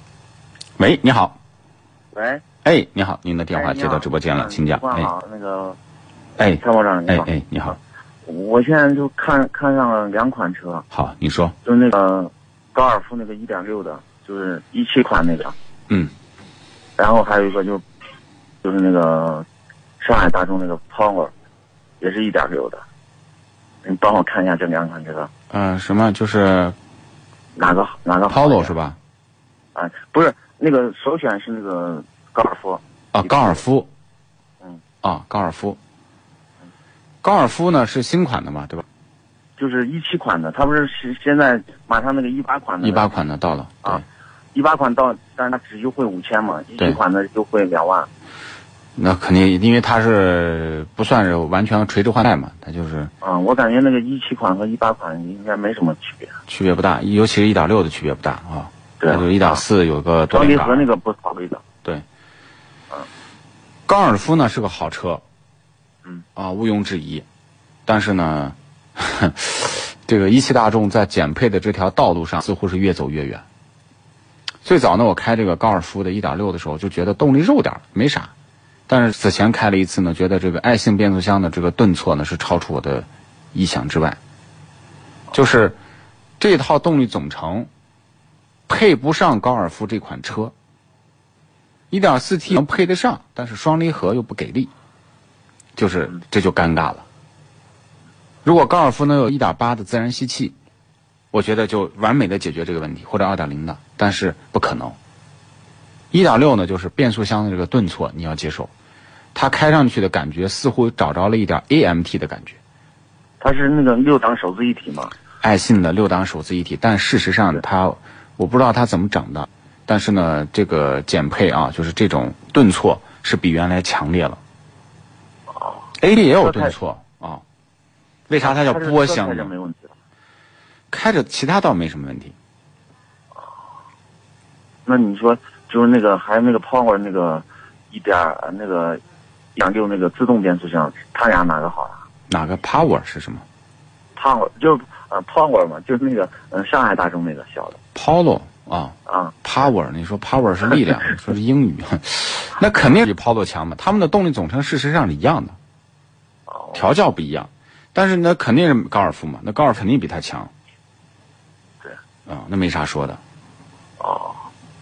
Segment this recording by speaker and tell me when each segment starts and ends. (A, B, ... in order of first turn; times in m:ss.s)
0:00.8-0:01.4 A
0:02.1-0:02.4 B
0:02.6-0:05.1 A
0:03.5-0:05.8 B
0:06.4-0:07.8 A
0:06.6-0:07.3 B
0:08.2-0:10.8 B
0:10.9-0:11.5 A
0:11.6-0:15.5 B
0:17.0-0:17.8 B
0:18.6-0:19.4 B
0:20.0-0:21.3 B
0:22.0-0:22.8 B
0:23.8-0:25.3 B
0:25.5-0:26.8 A
0:27.6-0:28.8 B
0:28.3-0:29.0 A
0:29.8-0:33.6 B
0:33.2-0:33.9 A
0:35.0-0:35.8 A
0:37.2-0:38.8 A
0:39.6-0:43.1 B
0:42.8-0:44.0 A
0:44.6-0:48.1 B
0:49.0-0:53.1 A
0:53.2-0:56.4 B
0:56.5-1:00.9 A
0:59.0-0:59.6 B
1:00.3-1:01.6 B
1:03.9-1:05.2 A
1:06.4-1:07.3 A
1:07.9-1:13.4 A
1:14.6-1:18.3 A
1:18.9-1:24.2 A
1:25.3-1:25.8 A
1:26.4-1:27.7 A
1:28.7-1:30.5 A
1:31.9-1:34.7 A
1:35.8-1:37.1 A
1:38.4-1:40.6 A
1:41.3-1:45.0 A
1:46.1-1:48.7 A
1:49.4-1:52.6 A
1:53.4-1:55.1 B
1:55.4-2:04.4 A
2:05.5-2:06.8 B
2:06.0-2:07.4 A
2:08.3-2:09.5 A
2:08.4-2:09.9 B
2:10.9-2:12.4 A
2:14.9-2:19.0 B
2:19.6-2:22.0 B
2:22.3-2:23.4 A
2:24.2-2:27.8 B
2:28.0-2:35.6 A
2:29.1-2:29.4 B
2:36.5-2:36.9 B
2:36.8-2:40.5 A
2:42.3-2:43.2 A
2:44.0-2:44.5 B